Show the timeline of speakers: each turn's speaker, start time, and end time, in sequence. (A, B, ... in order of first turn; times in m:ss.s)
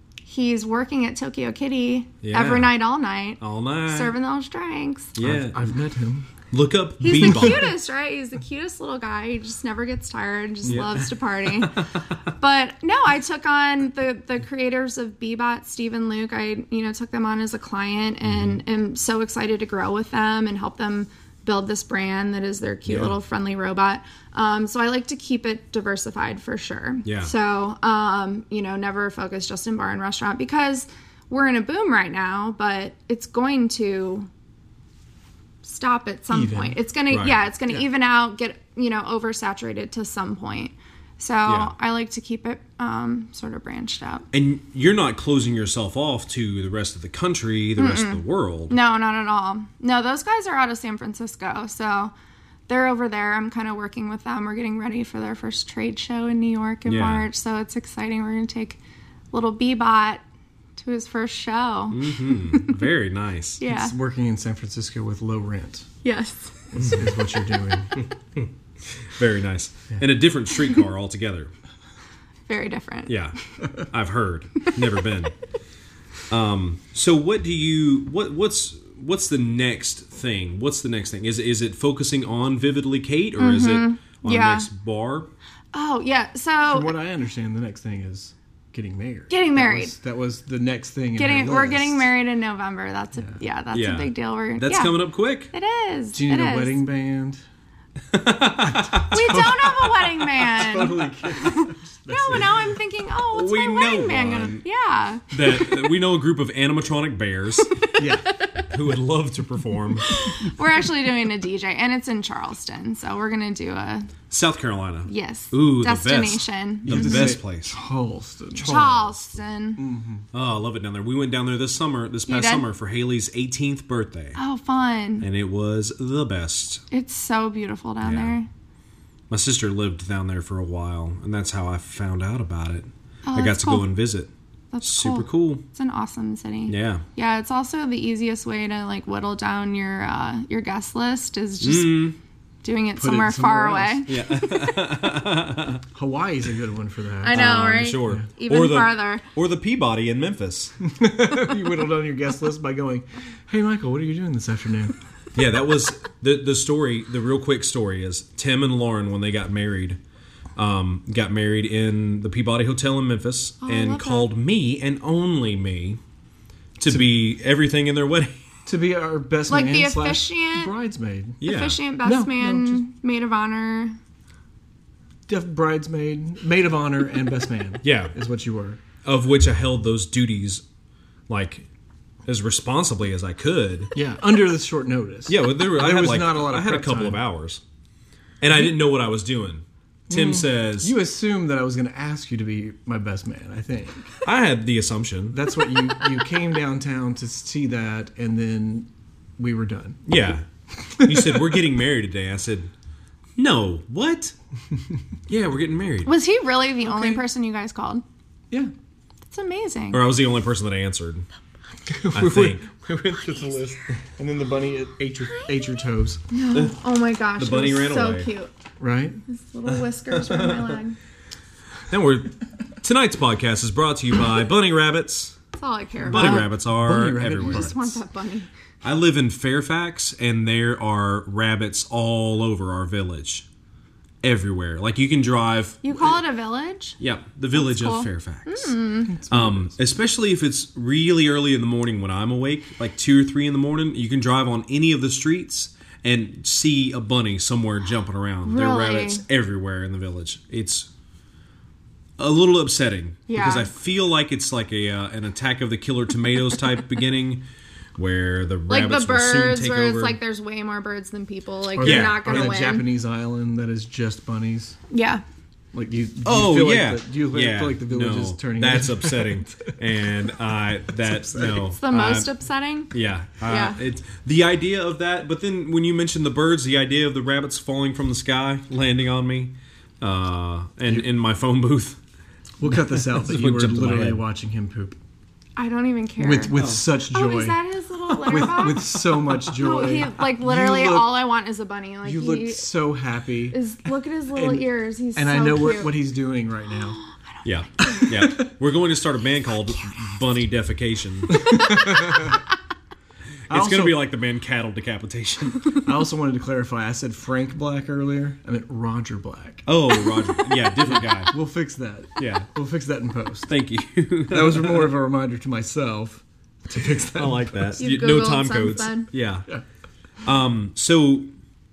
0:00.3-0:05.1 A
0:02.2-0:02.7 B
0:03.4-0:04.2 B
0:05.2-0:05.7 B
0:05.2-0:06.3 C
0:06.5-0:07.7 B
0:07.0-0:34.3 A
0:10.7-0:12.0 B
0:18.2-0:18.6 B
0:22.9-0:23.2 B
0:27.0-0:27.3 B
0:35.6-0:44.2 A
0:36.3-0:36.8 C
0:37.1-0:37.4 B
0:41.5-0:41.7 B
0:44.3-0:48.8 B
0:47.8-0:52.1 A
0:52.7-0:58.8 A
0:56.9-0:57.3 B
0:59.3-1:00.2 A
1:00.8-1:02.8 A
1:01.9-1:03.6 B
1:03.6-1:03.9 A
1:03.7-1:05.9 C
1:06.0-1:06.7 A
1:06.7-1:08.1 C
1:09.0-1:11.5 B
1:12.5-1:13.3 A
1:13.1-1:15.4 B
1:16.3-1:25.3 B
1:23.4-1:24.7 A
1:25.7-1:27.0 A
1:26.7-1:32.1 C
1:29.3-1:30.0 A
1:31.2-1:35.0 A
1:33.7-1:35.5 B
1:35.5-1:36.8 A
1:36.1-1:37.4 C
1:38.1-1:40.8 B
1:38.8-1:39.8 C
1:39.1-1:45.9 A
1:40.4-1:42.6 C
1:43.3-1:44.6 B
1:45.3-1:47.7 B
1:47.7-1:48.0 A
1:48.0-1:48.3 C
1:48.6-1:50.2 B
1:50.0-1:54.1 A
1:54.3-1:57.8 B
1:55.1-1:57.3 A
1:56.8-1:59.1 C
1:58.6-1:59.0 B
1:58.6-1:59.8 A
1:59.8-2:00.2 C
2:00.3-2:04.4 B
2:02.3-2:02.7 A
2:04.4-2:05.3 A
2:05.2-2:06.8 B
2:06.9-2:08.5 A
2:08.0-2:08.4 B
2:09.3-2:14.3 B
2:13.3-2:13.9 A
2:14.7-2:24.8 A
2:14.8-2:15.6 B
2:16.7-2:17.0 B
2:21.6-2:22.2 B
2:23.0-2:24.0 C
2:24.1-2:25.8 B
2:25.9-2:27.4 C
2:27.2-2:29.2 A
2:27.3-2:30.7 B
2:30.8-2:35.0 C
2:35.4-2:40.0 B
2:40.6-2:46.0 B
2:43.6-2:44.3 A
2:46.8-2:48.4 B
2:48.7-2:51.4 C
2:49.5-2:50.7 A
2:51.4-2:51.8 B
2:51.4-2:54.0 A
2:52.0-2:52.8 C
2:55.3-2:58.8 C
2:57.8-2:58.1 B
2:59.0-3:00.6 B
3:01.3-3:01.7 B
3:02.3-3:03.9 B
3:04.0-3:07.2 C
3:05.3-3:07.6 B
3:08.4-3:10.9 B
3:10.1-3:14.2 C
3:14.2-3:15.5 B
3:15.3-3:20.0 C
3:20.1-3:20.5 B
3:21.0-3:21.4 C
3:21.0-3:22.7 B
3:23.4-3:24.4 B
3:25.3-3:26.2 B
3:26.1-3:28.0 A
3:26.9-3:27.2 C
3:29.3-3:30.0 A
3:29.9-3:31.3 B
3:31.9-3:36.2 C
3:32.1-3:32.6 B
3:35.3-3:35.8 A
3:36.3-3:38.5 A
3:37.4-3:38.3 B
3:38.8-3:39.2 C
3:39.3-3:41.0 A
3:39.7-3:40.8 B
3:41.9-3:45.4 B
3:45.6-3:46.6 A
3:46.0-3:48.0 C
3:46.1-3:47.8 B
3:47.4-3:48.5 A
3:48.8-3:53.5 B
3:54.2-3:56.1 B
3:55.8-3:57.0 A
3:57.0-3:58.8 B
3:57.5-3:59.2 A
3:59.1-3:59.8 C
3:59.3-4:10.9 B
4:08.4-4:09.2 A
4:12.2-4:20.2 B
4:13.3-4:13.7 A
4:18.7-4:22.9 A
4:21.8-4:24.8 C
4:21.8-4:22.6 B
4:24.9-4:25.2 A
4:25.7-4:29.8 C
4:26.2-4:32.3 B
4:31.0-4:31.6 C
4:31.5-4:33.8 A
4:32.9-4:42.0 B
4:42.6-4:45.0 C
4:43.0-4:44.2 B
4:45.6-4:52.7 A
4:46.2-4:47.6 C
4:46.5-4:46.8 B
4:48.2-4:51.3 C
4:52.0-4:53.6 C
4:53.5-4:56.0 A
4:54.3-4:57.0 C
4:57.0-4:58.0 A
4:57.4-5:01.6 B
4:57.8-4:58.5 C
5:01.3-5:02.4 C
5:03.5-5:05.8 B
5:03.5-5:04.0 C
5:05.8-5:09.7 C
5:09.7-5:11.4 B
5:10.9-5:13.5 C
5:12.2-5:12.5 B
5:13.5-5:14.9 B
5:14.3-5:17.8 C
5:17.2-5:19.5 B
5:17.8-5:19.1 A
5:20.2-5:21.3 B